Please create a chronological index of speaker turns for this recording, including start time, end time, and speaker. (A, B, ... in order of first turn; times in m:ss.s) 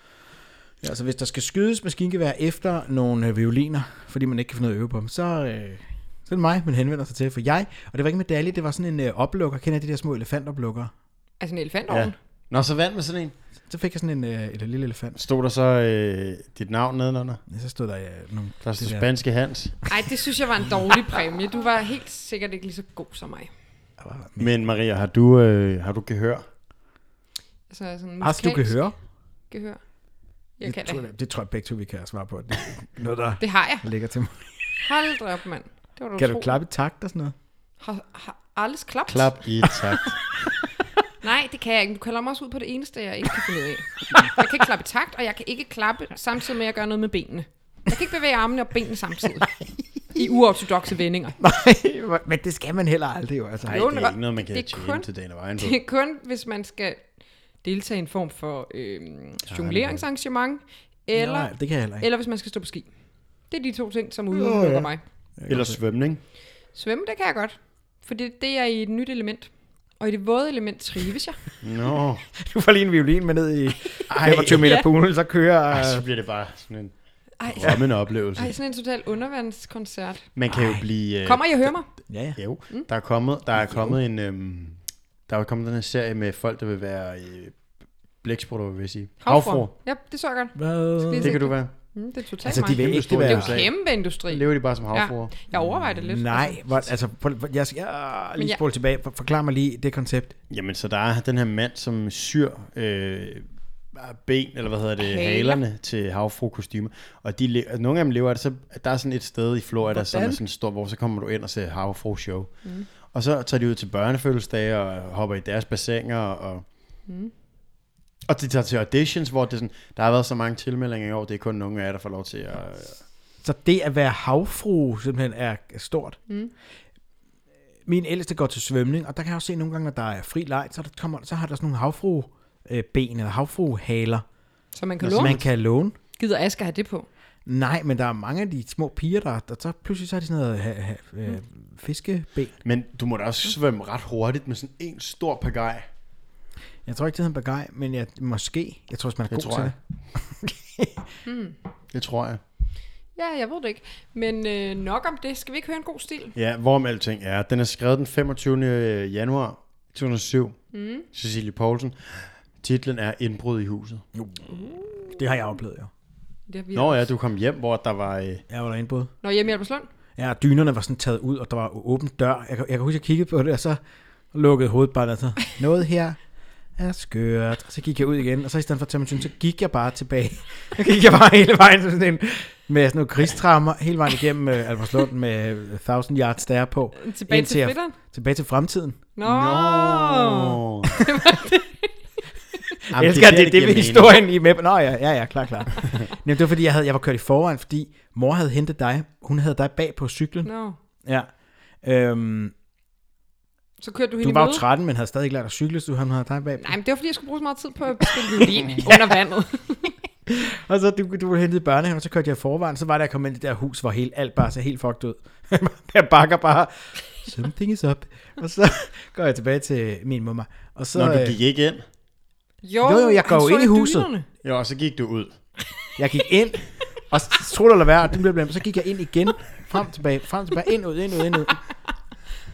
0:00.8-0:10.9 A
0:11.4-0:12.1 B
0:11.9-0:13.3 C
0:13.7-0:15.2 A
0:15.2-0:17.4 C
0:17.5-0:19.0 A
0:18.6-0:19.8 C
0:19.9-0:23.5 B
0:24.0-0:24.5 A
0:24.4-0:26.4 C
0:27.7-0:28.8 B
0:28.2-0:28.9 A
0:29.5-0:29.8 B
0:30.6-0:31.0 B
0:30.6-0:34.8 A
0:33.4-0:33.9 B
0:34.8-0:36.6 B
0:36.2-0:37.3 A
0:37.8-0:39.4 B
0:39.1-0:40.2 C
0:41.2-0:49.5 B
0:50.1-0:51.4 B
0:51.4-0:53.8 A
0:53.6-0:55.8 C
0:53.7-0:55.0 B
0:55.6-0:57.0 B
0:57.6-1:02.9 B
0:59.5-1:00.0 C
1:01.1-1:02.1 A
1:03.5-1:05.0 B
1:04.4-1:04.8 A
1:05.4-1:05.8 A
1:05.5-1:06.2 C
1:06.7-1:11.4 B
1:11.6-1:12.2 C
1:12.3-1:16.0 A
1:14.1-1:14.7 C
1:14.6-1:14.9 B
1:15.7-1:16.9 C
1:17.4-1:20.3 B
1:17.4-1:18.5 C
1:20.3-1:27.6 C
1:20.5-1:20.8 A
1:21.2-1:21.9 B
1:22.1-1:22.4 A
1:23.7-1:24.0 A
1:28.2-1:29.7 C
1:29.2-1:36.6 B
1:30.6-1:31.4 A
1:31.2-1:31.7 C
1:32.4-1:33.6 A
1:32.5-1:35.6 C
1:35.5-1:40.3 A
1:40.5-1:56.6 C
1:45.0-1:45.6 B
1:49.9-1:50.3 B
1:57.1-1:57.3 B
1:58.2-2:03.0 C
2:03.4-2:06.2 A
2:07.8-2:14.2 A
2:14.7-2:15.4 B
2:15.0-2:15.4 C
2:15.0-2:16.0 A
2:16.2-2:17.1 B
2:17.4-2:22.5 A
2:22.6-2:25.8 C
2:26.8-2:31.1 A
2:29.3-2:29.7 C
2:31.2-2:31.5 B
2:31.9-2:32.4 C
2:33.2-2:36.3 B
2:36.3-2:44.0 C
2:40.7-2:41.0 B
2:44.1-2:45.9 A
2:44.5-2:45.1 B
2:46.5-2:47.1 B
2:46.7-2:48.4 C
2:48.5-2:49.1 A
2:49.2-2:49.9 B
2:50.2-2:53.8 A
2:54.3-2:56.2 A
2:56.8-3:09.0 A
3:07.0-3:08.0 B
3:09.2-3:12.0 B
3:09.2-3:11.0 C
3:12.9-3:14.2 C
3:12.9-3:20.5 A
3:20.4-3:20.8 B
3:21.0-3:21.3 A
3:21.8-3:22.5 A
3:23.8-3:24.6 B
3:24.2-3:26.8 A
3:26.6-3:30.0 B
3:28.2-3:29.0 A
3:30.3-3:41.4 A
3:40.9-3:41.8 C
3:42.6-3:44.2 B
3:42.8-3:44.1 A
3:44.4-3:45.4 C
3:46.0-3:51.6 A